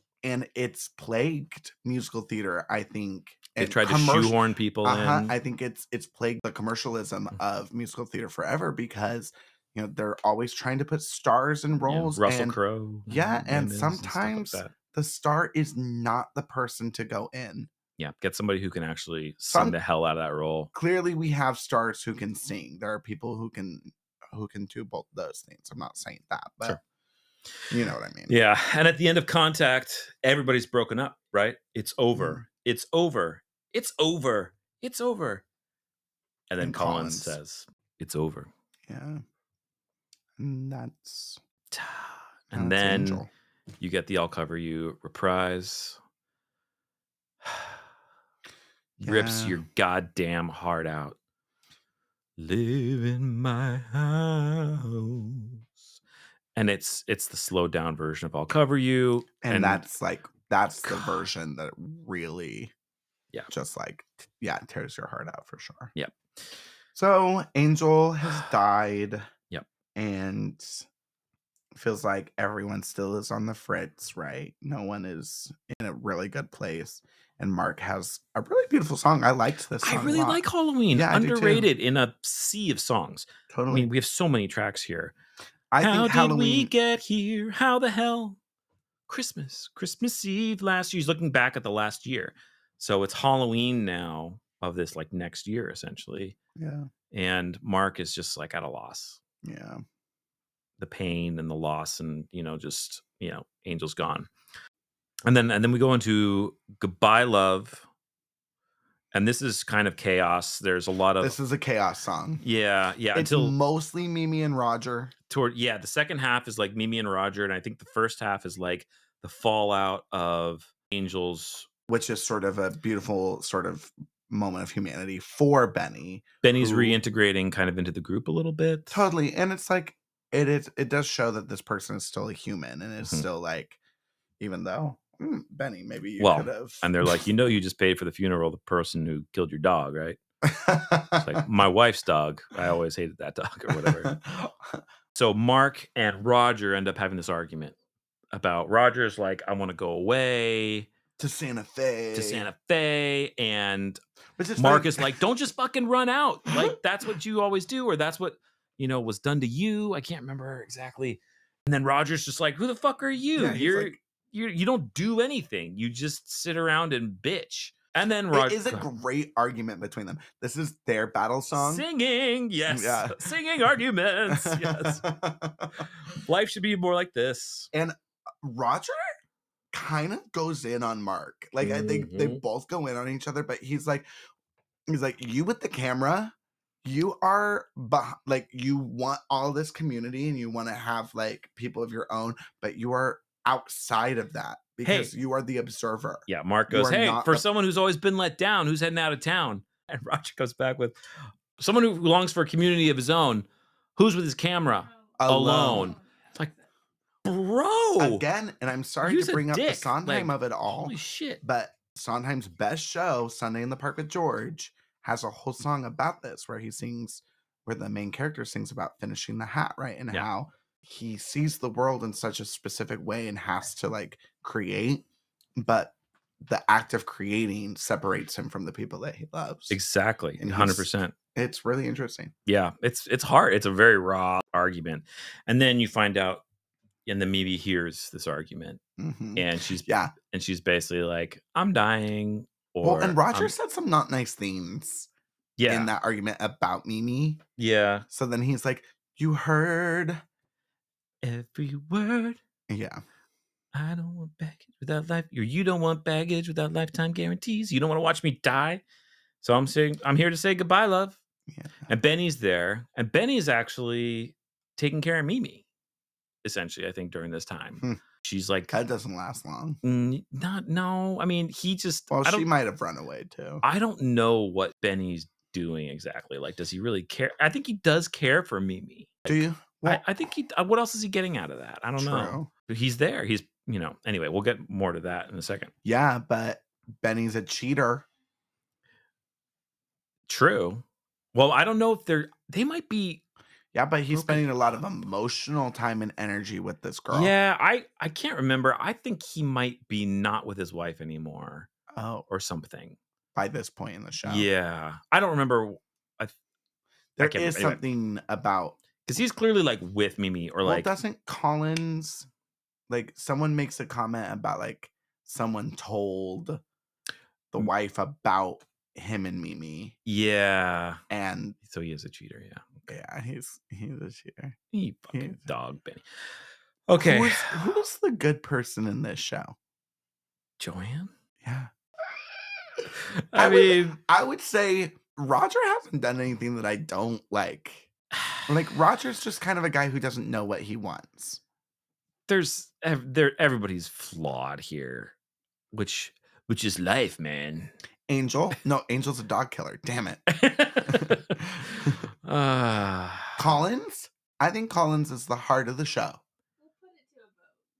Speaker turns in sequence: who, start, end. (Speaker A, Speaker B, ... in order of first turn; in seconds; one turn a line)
Speaker A: 0.2-17.7
Speaker B: 3.6-5.3
Speaker B: 11.9-14.7
Speaker B: 18.0-20.7
Speaker A: 19.5-19.8
Speaker A: 20.7-26.8
Speaker A: 27.7-28.4
Speaker B: 28.3-35.4
Speaker A: 32.1-32.4
Speaker B: 36.5-38.5
Speaker A: 36.6-37.4
Speaker A: 38.9-39.2
Speaker A: 40.4-41.4
Speaker B: 41.7-43.2
Speaker A: 42.5-43.3
Speaker B: 43.8-46.0
Speaker B: 47.4-47.8
Speaker B: 49.0-51.1
Speaker A: 49.0-49.6
Speaker B: 52.4-55.7
Speaker B: 56.5-59.8
Speaker A: 59.4-62.7
Speaker B: 60.8-61.2
Speaker A: 63.5-65.9
Speaker A: 66.9-69.3
Speaker A: 70.0-70.8
Speaker A: 71.7-81.7
Speaker B: 79.8-85.1
Speaker A: 83.5-83.9
Speaker A: 85.7-86.7
Speaker B: 85.8-88.4
Speaker B: 89.1-96.3
Speaker A: 96.6-96.9
Speaker B: 97.1-99.2
Speaker A: 99.4-99.8
Speaker B: 100.8-104.3
Speaker B: 105.2-107.8
Speaker B: 109.1-111.4
Speaker A: 111.2-112.4
Speaker B: 112.4-113.6
Speaker A: 113.1-115.1
Speaker B: 115.3-121.7
Speaker A: 121.9-127.0
Speaker B: 126.4-129.0
Speaker A: 128.9-133.8
Speaker A: 134.4-136.9
Speaker B: 136.2-140.2
Speaker A: 140.4-141.4
Speaker B: 141.2-144.1
Speaker A: 143.7-144.8
Speaker B: 145.1-147.8
Speaker B: 148.3-150.9
Speaker A: 151.2-152.5
Speaker B: 152.1-154.0
Speaker A: 154.4-155.2
Speaker B: 154.6-168.9
Speaker A: 163.3-164.0
Speaker A: 168.3-171.8
Speaker B: 171.6-175.0
Speaker A: 172.7-173.3
Speaker A: 174.3-175.9
Speaker B: 175.8-177.7
Speaker A: 177.7-179.0
Speaker A: 179.7-184.1
Speaker B: 181.6-182.4
Speaker A: 184.9-197.4
Speaker B: 194.8-195.1
Speaker B: 196.3-200.9
Speaker B: 201.6-206.5
Speaker C: 204.8-206.7
Speaker A: 205.2-205.9
Speaker B: 207.2-208.2
Speaker A: 208.0-225.1
Speaker B: 209.0-211.4
Speaker A: 225.6-229.8
Speaker B: 229.7-231.1
Speaker A: 230.4-232.3
Speaker B: 232.4-236.4
Speaker B: 237.1-238.8
Speaker A: 239.0-240.1
Speaker B: 239.3-243.5
Speaker A: 242.8-245.1
Speaker B: 245.6-245.9
Speaker A: 245.7-247.4
Speaker B: 247.6-248.1
Speaker A: 248.1-250.2
Speaker B: 251.2-252.4
Speaker A: 252.7-253.0
Speaker B: 253.7-258.8
Speaker B: 259.4-261.2
Speaker A: 261.5-261.9
Speaker B: 261.9-265.6
Speaker B: 266.4-268.7
Speaker A: 268.7-269.8
Speaker B: 269.8-272.5
Speaker A: 272.1-273.6
Speaker B: 273.6-285.7
Speaker A: 279.3-280.1
Speaker A: 282.0-282.5
Speaker A: 285.9-288.1
Speaker B: 290.3-293.2
Speaker A: 293.7-297.3
Speaker B: 294.1-294.5
Speaker B: 297.1-301.7
Speaker A: 301.9-302.3
Speaker B: 302.3-303.0
Speaker A: 303.4-304.5
Speaker B: 304.2-306.4
Speaker A: 307.2-308.8
Speaker B: 307.2-307.8
Speaker B: 309.1-310.9
Speaker A: 310.6-312.3
Speaker A: 312.9-316.6
Speaker A: 317.5-319.9
Speaker B: 320.1-321.0
Speaker A: 321.1-321.6
Speaker B: 321.6-322.9
Speaker A: 322.9-324.6
Speaker B: 324.7-326.1
Speaker A: 325.1-325.4
Speaker B: 326.9-327.6
Speaker A: 327.0-329.6
Speaker B: 330.6-331.1
Speaker A: 331.4-331.7
Speaker B: 332.9-334.0
Speaker A: 333.4-337.9
Speaker B: 338.2-338.4
Speaker A: 338.5-341.4
Speaker B: 342.3-345.1
Speaker B: 345.7-347.7
Speaker A: 348.1-350.2
Speaker B: 350.3-353.6
Speaker A: 350.8-352.0
Speaker A: 353.4-356.2
Speaker C: 356.6-357.6